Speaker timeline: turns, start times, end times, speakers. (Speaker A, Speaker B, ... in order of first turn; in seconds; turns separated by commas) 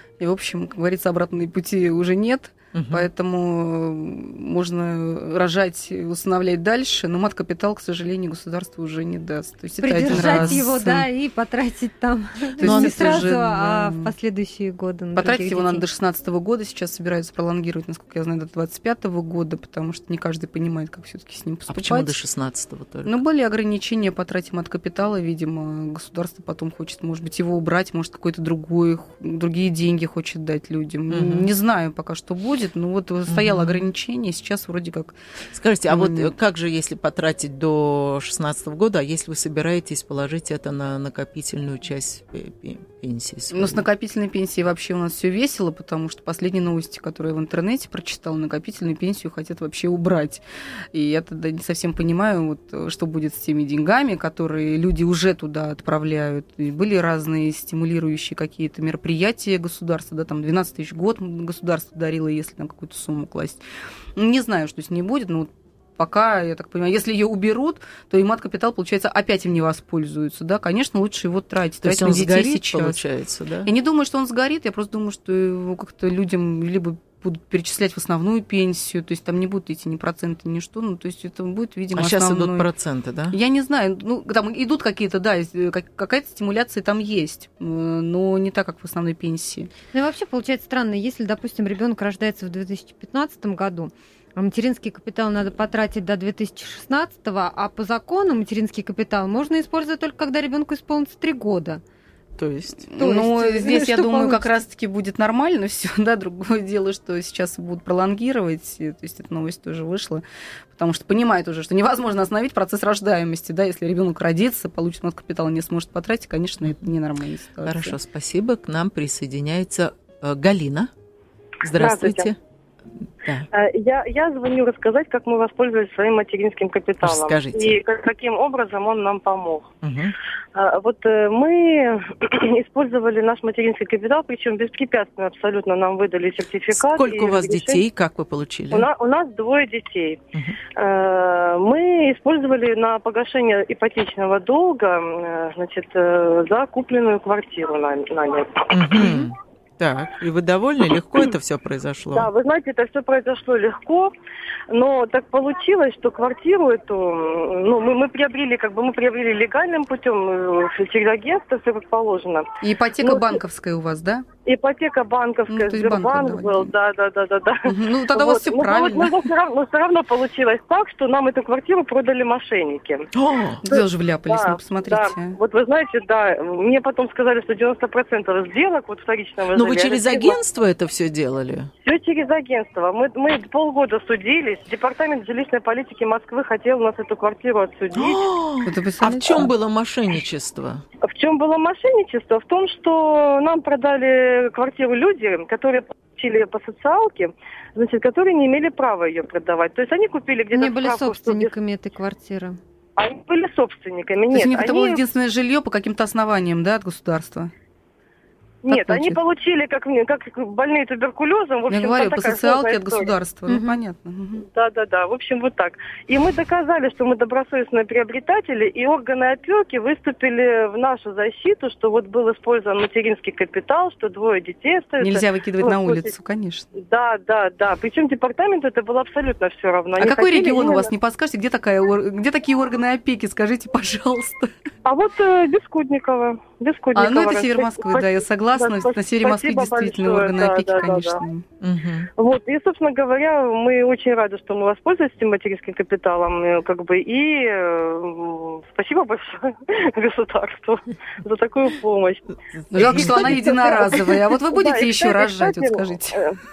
Speaker A: 0.2-11.1, Speaker B: 2.7-3.1, Speaker C: 9.8-15.8, Speaker B: 10.1-10.6, Speaker A: 12.6-14.1, Speaker B: 12.6-13.2, Speaker A: 15.2-22.1, Speaker B: 21.7-23.2, Speaker A: 23.1-35.1, Speaker B: 31.1-31.5, Speaker B: 33.3-33.8, Speaker B: 35.5-43.8, Speaker A: 35.9-36.3, Speaker A: 43.5-50.4, Speaker A: 50.9-63.6, Speaker A: 64.2-73.0, Speaker B: 71.8-73.7, Speaker A: 73.7-82.7, Speaker B: 82.0-83.4, Speaker A: 83.3-89.7, Speaker C: 89.9-101.8, Speaker B: 102.4-102.8, Speaker A: 102.9-110.2, Speaker C: 103.0-104.4, Speaker A: 110.7-118.0, Speaker B: 117.6-120.9, Speaker B: 121.6-122.4, Speaker D: 121.8-122.3, Speaker D: 123.5-129.7, Speaker B: 127.0-127.8, Speaker B: 129.8-130.2, Speaker D: 130.6-137.8, Speaker B: 136.7-138.9, Speaker D: 138.7-140.2, Speaker D: 140.8-149.3, Speaker B: 148.7-152.3, Speaker D: 152.1-154.1, Speaker D: 154.7-162.5, Speaker A: 162.6-164.3, Speaker D: 163.0-163.4, Speaker D: 164.4-173.1, Speaker A: 165.5-166.7, Speaker A: 167.7-169.3, Speaker B: 173.1-173.6, Speaker A: 173.7-175.4, Speaker D: 173.7-180.4, Speaker B: 179.5-181.7, Speaker D: 181.8-188.2, Speaker B: 187.9-190.8, Speaker A: 188.7-189.5, Speaker D: 191.0-201.5, Speaker C: 200.5-202.6, Speaker D: 203.0-205.0, Speaker A: 204.3-207.5, Speaker D: 208.6-213.1, Speaker A: 208.7-209.2, Speaker A: 211.7-214.4, Speaker C: 213.5-213.8, Speaker D: 214.4-226.1, Speaker A: 225.0-226.7, Speaker D: 226.8-230.9, Speaker A: 230.0-234.5, Speaker D: 234.8-241.2, Speaker A: 237.0-241.4, Speaker B: 241.6-242.1, Speaker D: 242.2-256.4, Speaker B: 252.6-253.6, Speaker A: 252.7-256.2